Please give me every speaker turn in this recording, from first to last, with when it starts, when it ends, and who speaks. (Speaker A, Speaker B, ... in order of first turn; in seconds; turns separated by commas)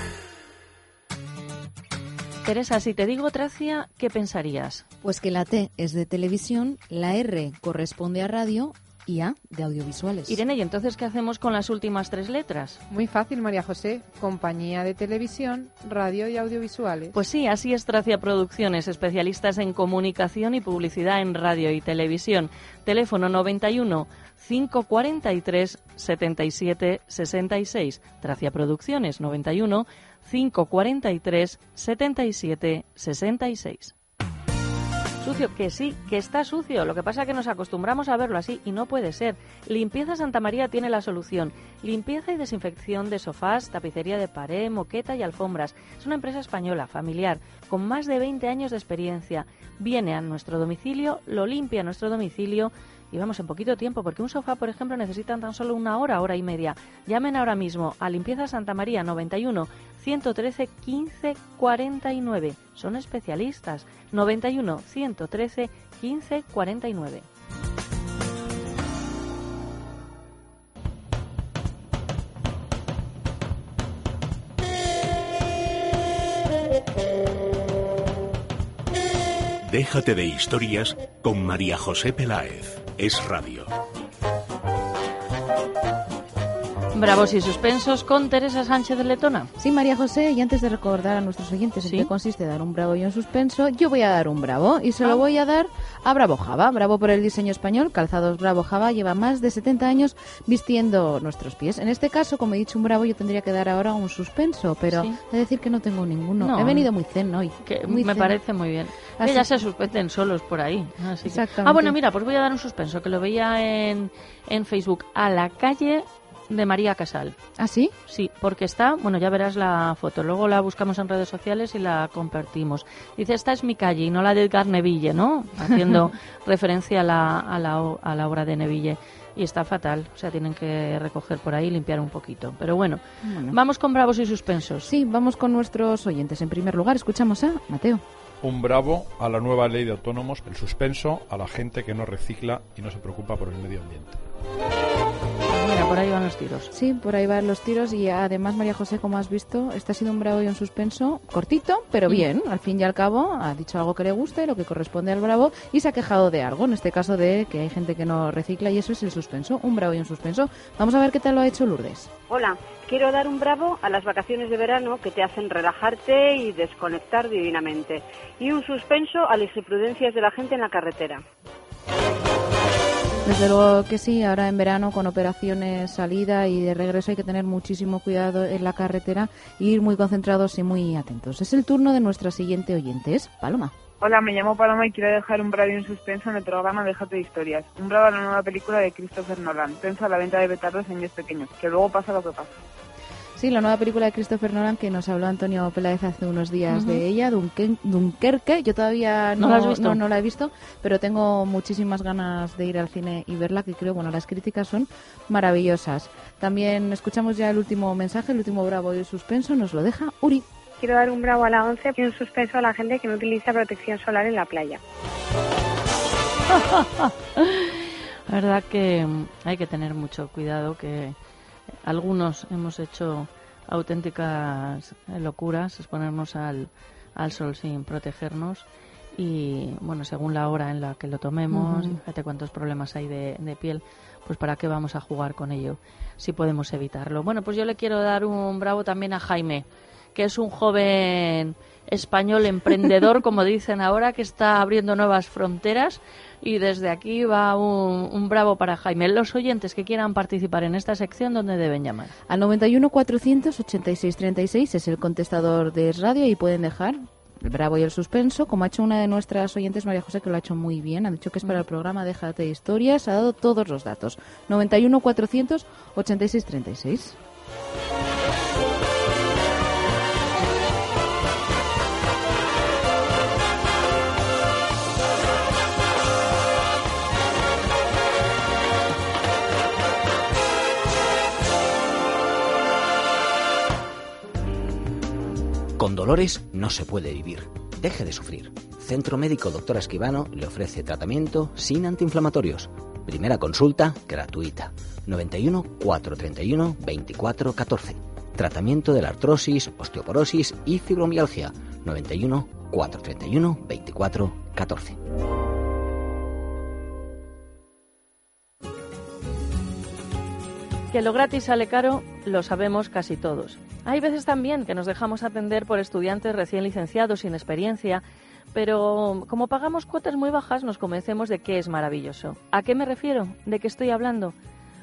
Speaker A: 2.5-4.8, Speaker B: 5.0-10.4, Speaker A: 10.3-12.8, Speaker C: 12.9-17.2, Speaker A: 17.1-33.9, Speaker A: 35.2-67.3, Speaker D: 79.6-83.7, Speaker A: 86.9-89.5, Speaker B: 89.6-108.4, Speaker A: 91.8-92.1, Speaker A: 104.9-105.2, Speaker A: 106.4-106.9, Speaker A: 107.6-117.4, Speaker B: 109.2-109.5, Speaker B: 111.2-112.0, Speaker B: 117.6-117.9, Speaker A: 118.1-134.9, Speaker B: 133.2-133.6, Speaker B: 134.8-138.0, Speaker E: 138.4-144.2, Speaker A: 145.5-146.7, Speaker B: 146.7-162.1, Speaker F: 162.3-171.2, Speaker B: 173.2-183.7, Speaker G: 184.0-192.5, Speaker B: 193.4-210.4, Speaker A: 196.7-197.0, Speaker A: 199.4-200.0, Speaker H: 210.8-214.8, Speaker A: 216.5-221.2, Speaker A: 221.8-252.1, Speaker B: 231.5-232.0, Speaker B: 252.3-267.2, Speaker I: 285.8-305.0, Speaker A: 310.9-318.0, Speaker A: 318.5-324.4